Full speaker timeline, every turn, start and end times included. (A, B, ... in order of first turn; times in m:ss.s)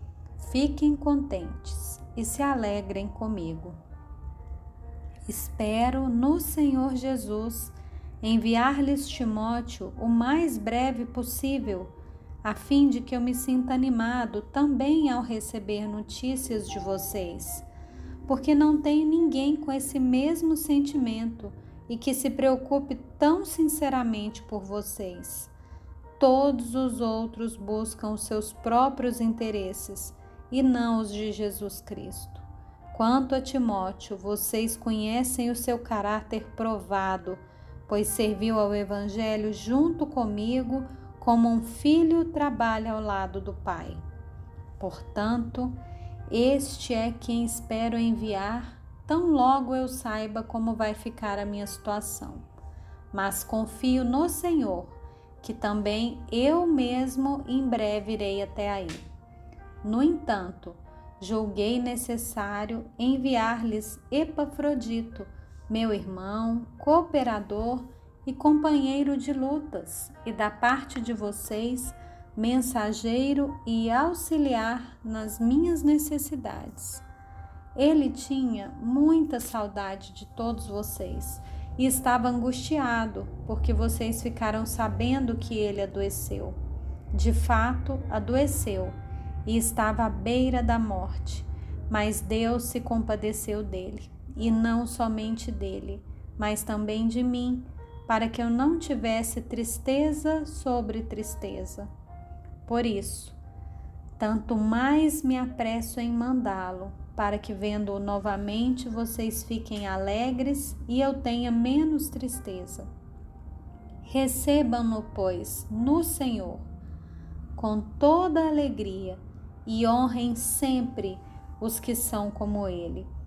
0:00.4-0:03.8 A
0:05.2-0:11.9 A
0:12.4-0:17.6 A
0:18.3-0:25.5 A
0:26.2-0:44.0 A
0:44.8-0:45.8 A
0:46.3-0:52.5 A
0:53.1-0:59.0 A
0:59.8-1:17.0 A
1:17.8-1:26.6 A
1:27.1-1:41.9 A
1:42.6-1:43.4 A
1:44.2-1:52.9 A
1:54.0-1:56.7 A
1:57.6-2:03.1 A